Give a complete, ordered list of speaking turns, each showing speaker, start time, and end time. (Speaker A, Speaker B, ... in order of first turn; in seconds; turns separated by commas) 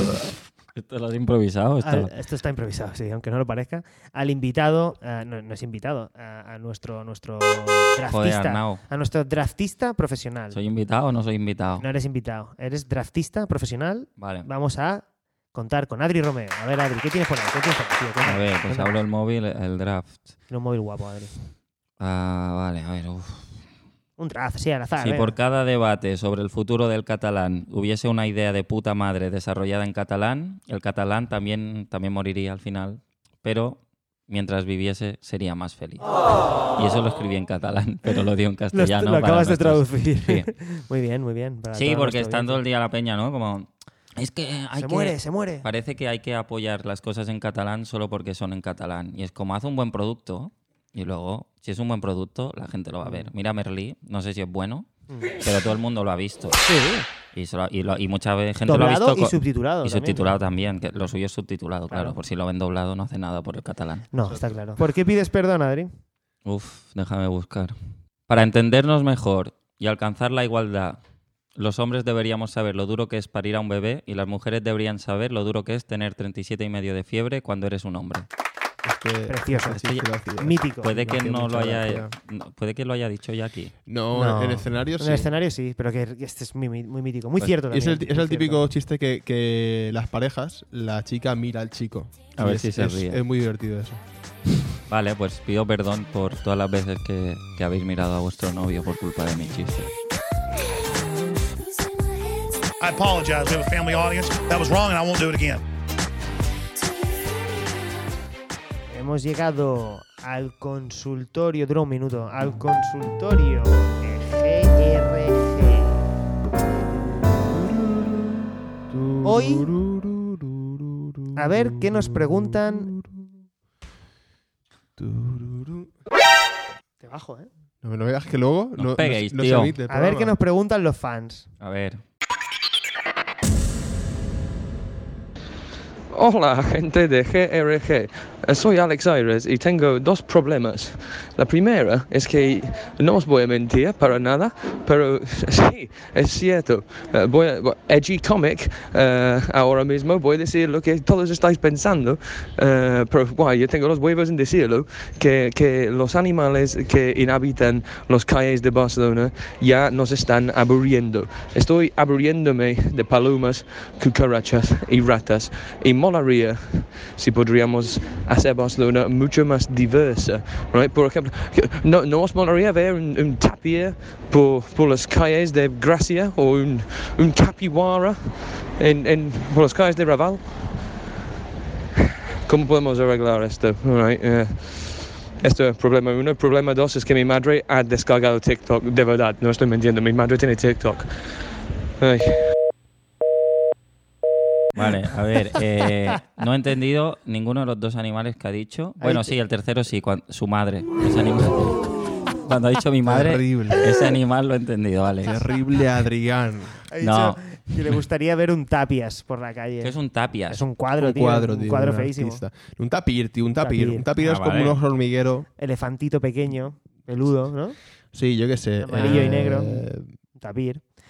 Speaker A: 0.7-2.1, Speaker B: 1.8-10.6, Speaker A: 8.1-8.8, Speaker A: 10.5-11.8, Speaker B: 11.8-18.9, Speaker A: 14.2-14.5, Speaker A: 18.2-20.2, Speaker B: 20.5-21.3, Speaker A: 22.0-23.6, Speaker B: 24.2-25.3, Speaker A: 25.0-36.1, Speaker A: 36.7-40.5, Speaker B: 38.7-42.6, Speaker A: 41.7-54.9, Speaker B: 44.7-45.6, Speaker B: 53.0-53.3, Speaker A: 55.4-56.6, Speaker B: 56.6-57.1, Speaker A: 57.3-64.0, Speaker B: 58.7-60.4, Speaker B: 64.1-65.9, Speaker C: 64.3-64.8, Speaker A: 66.4-67.7, Speaker A: 68.3-71.0, Speaker A: 71.5-78.3, Speaker C: 78.8-82.1, Speaker B: 79.3-79.9, Speaker A: 79.8-80.0, Speaker B: 80.4-80.9, Speaker A: 80.8-83.7, Speaker C: 83.9-85.3, Speaker B: 84.1-88.7, Speaker C: 87.4-94.0, Speaker A: 92.3-93.2, Speaker A: 94.9-99.9, Speaker D: 102.8-105.6, Speaker B: 108.9-116.0, Speaker C: 117.3-123.3, Speaker B: 119.2-119.7, Speaker B: 121.3-122.9, Speaker C: 125.0-125.9, Speaker B: 127.0-127.5, Speaker C: 127.8-130.3, Speaker A: 128.8-129.7, Speaker B: 129.9-131.5, Speaker A: 131.6-132.0, Speaker E: 136.1-180.5, Speaker E: 182.4-191.1, Speaker E: 192.0-192.5, Speaker A: 194.7-201.9, Speaker B: 199.0-199.3, Speaker A: 202.4-205.3, Speaker C: 203.0-203.8, Speaker C: 205.2-206.8, Speaker B: 206.9-209.9, Speaker A: 207.0-207.4, Speaker A: 209.8-210.6, Speaker B: 210.5-212.4, Speaker C: 211.0-215.5, Speaker B: 213.6-214.1, Speaker A: 214.2-214.8, Speaker B: 215.6-217.8, Speaker C: 218.1-220.1, Speaker B: 218.8-219.8, Speaker A: 219.0-219.3, Speaker B: 220.3-220.8